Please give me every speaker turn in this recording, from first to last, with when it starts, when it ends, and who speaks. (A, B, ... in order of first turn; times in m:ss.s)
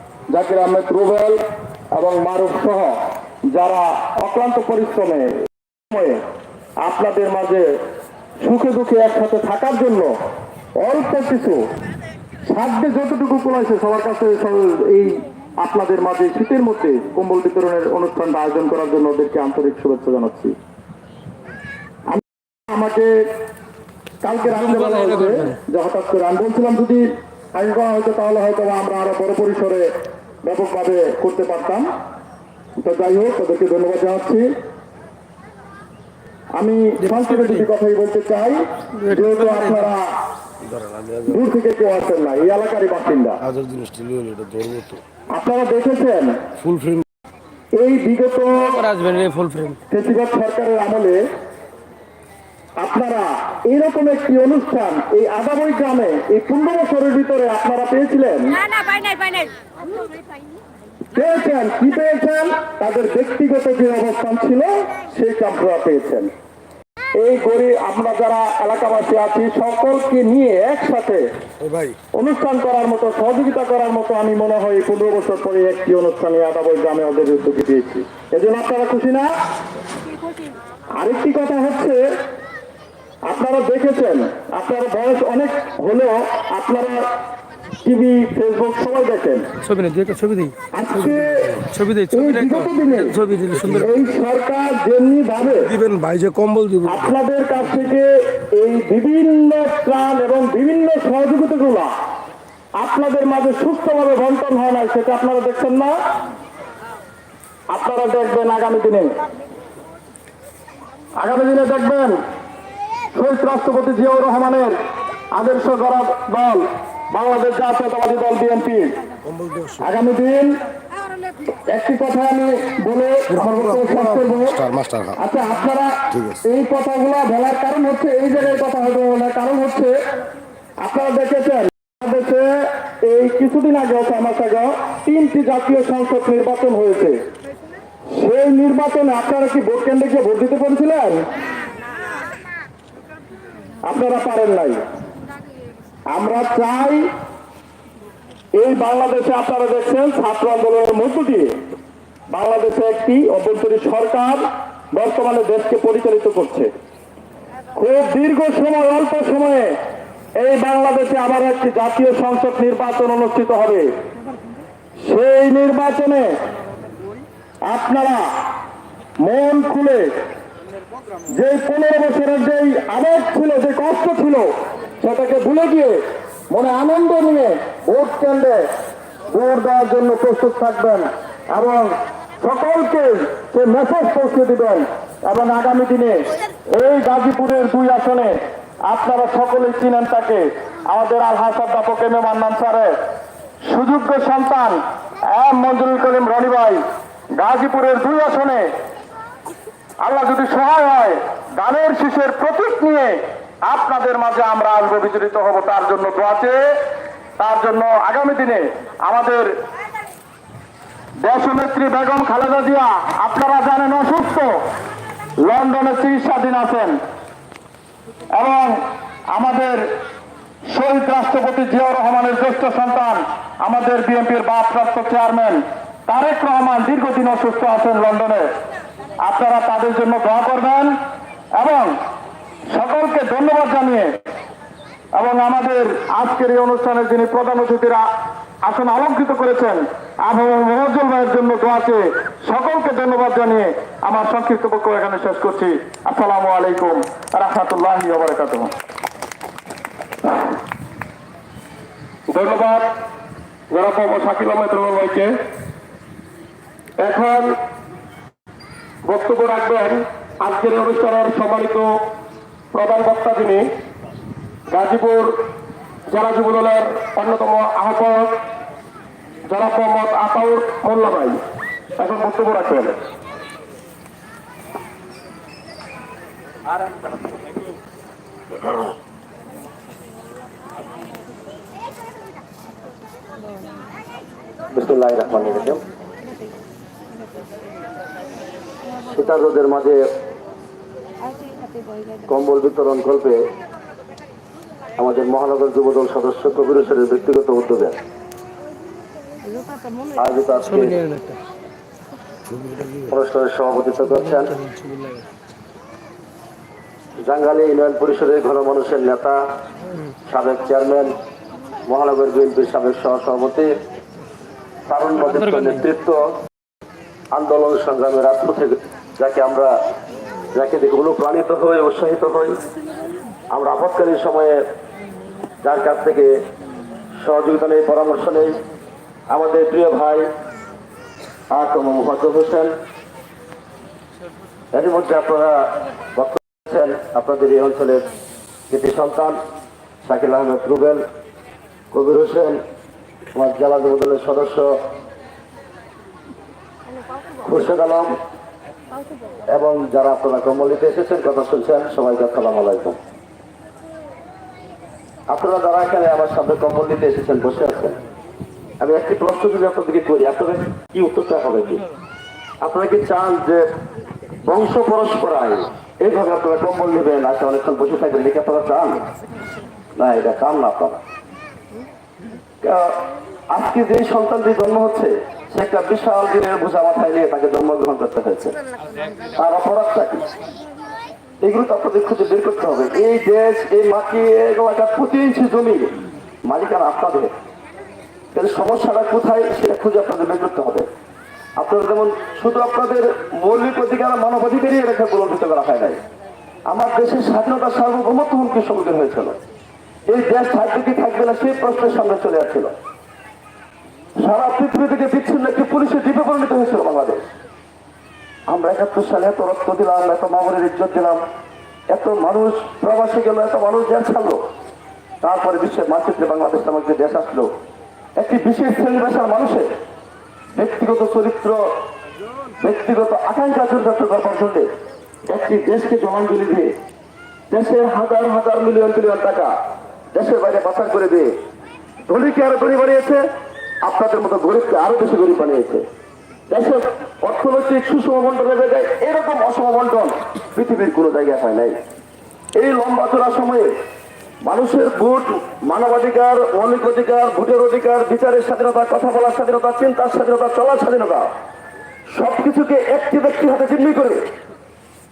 0:00.3-0:01.4 A
0:01.9-0:03.0 A
0:03.5-0:06.2 A
0:06.8-0:07.7 A
0:08.4-0:10.1 A
0:10.8-0:11.6 A
0:12.5-0:20.5 A
0:22.1-0:23.2 A
0:24.2-0:29.9 A
0:30.4-0:31.9 A
0:32.8-0:34.5 A
0:36.6-0:40.1 A
0:39.0-0:39.6 B
0:40.7-0:41.2 C
0:41.2-0:43.4 A
0:43.5-0:45.0 C
0:45.3-0:46.4 A
0:46.6-0:47.0 C
0:47.8-0:48.9 A
0:48.8-0:49.8 B
0:49.9-0:51.2 A
0:52.8-0:59.1 A
1:01.1-1:06.3 A
1:07.2-1:11.2 A
1:12.2-1:19.3 A
1:21.0-1:22.0 A
1:23.2-1:27.0 A
1:27.8-1:29.4 A
1:29.6-1:30.5 B
1:30.7-1:35.8 A
1:31.6-1:33.8 B
1:35.8-1:36.9 C
1:36.8-1:41.9 A
1:42.8-1:46.0 A
1:47.7-1:49.1 A
1:51.2-1:52.2 A
1:53.1-1:54.8 A
1:55.3-1:58.9 A
1:59.8-2:00.5 A
2:01.7-2:10.0 A
2:04.7-2:05.0 C
2:10.8-2:17.2 A
2:18.1-2:21.2 A
2:23.8-2:24.8 A
2:26.1-2:27.0 A
2:28.6-2:31.5 A
2:32.3-2:36.7 A
2:37.8-2:39.8 A
2:40.4-2:43.9 A
2:45.0-2:46.3 A
2:47.7-2:48.2 A
2:49.2-2:50.1 A
2:51.4-2:54.5 A
2:55.0-2:58.6 A
2:59.3-3:12.9 A
3:13.6-3:16.8 A
3:17.4-3:18.7 A
3:20.0-3:26.6 A
3:27.4-3:29.5 A
3:31.2-3:34.5 A
3:35.4-3:37.0 A
3:38.3-3:38.8 A
3:39.3-3:39.8 A
3:40.6-3:48.5 A
3:49.2-3:50.9 A
3:51.6-3:51.9 A
3:52.7-3:54.2 A
3:55.1-3:58.0 A
3:58.6-4:08.7 A
4:12.3-4:12.9 A
4:13.7-4:15.3 A
4:17.0-4:17.5 A
4:19.1-4:21.9 A
4:22.7-4:23.6 A
4:24.7-4:25.3 A
4:26.1-4:28.3 A
4:29.5-4:31.4 A
4:32.0-4:33.0 A
4:44.7-4:45.8 D
4:49.0-4:50.0 D
4:52.2-4:53.4 D
4:55.0-4:58.0 D
5:00.1-5:01.0 D
5:00.9-5:01.4 B
5:03.1-5:04.6 D
5:07.2-5:09.4 D
5:10.3-5:11.1 D
5:11.9-5:13.7 D
5:14.9-5:16.2 D
5:17.3-5:19.7 D
5:20.5-5:22.6 D
5:23.5-5:24.6 D
5:25.6-5:26.3 D
5:27.2-5:28.6 D
5:29.3-5:30.2 D
5:31.5-5:32.7 D
5:34.7-5:38.1 D
5:38.7-5:39.4 D
5:40.0-5:41.0 D
5:41.9-5:42.6 D
5:43.3-5:44.8 D
5:47.4-5:48.1 D
5:49.5-5:53.0 D
5:55.3-5:58.0 D
5:58.8-6:01.9 D
6:02.6-6:03.6 D
6:04.4-6:09.0 D
6:10.0-6:11.0 D
6:12.6-6:18.5 D
6:19.4-6:20.3 D
6:21.4-6:27.3 D
6:28.3-6:30.9 D
6:31.6-6:36.0 D
6:36.7-6:39.4 D
6:40.1-6:42.7 D
6:44.2-6:47.3 D
6:48.5-6:51.2 D
6:51.9-6:54.4 D
6:55.2-6:57.5 D
6:58.2-6:59.7 D
7:00.6-7:01.6 D
7:02.6-7:04.7 D
7:05.3-7:06.8 D
7:07.5-7:09.5 D
7:10.1-7:11.3 D
7:12.1-7:13.2 D
7:13.8-7:15.8 D
7:16.5-7:21.7 D
7:22.6-7:23.7 D
7:24.4-7:31.3 D
7:32.1-7:34.2 D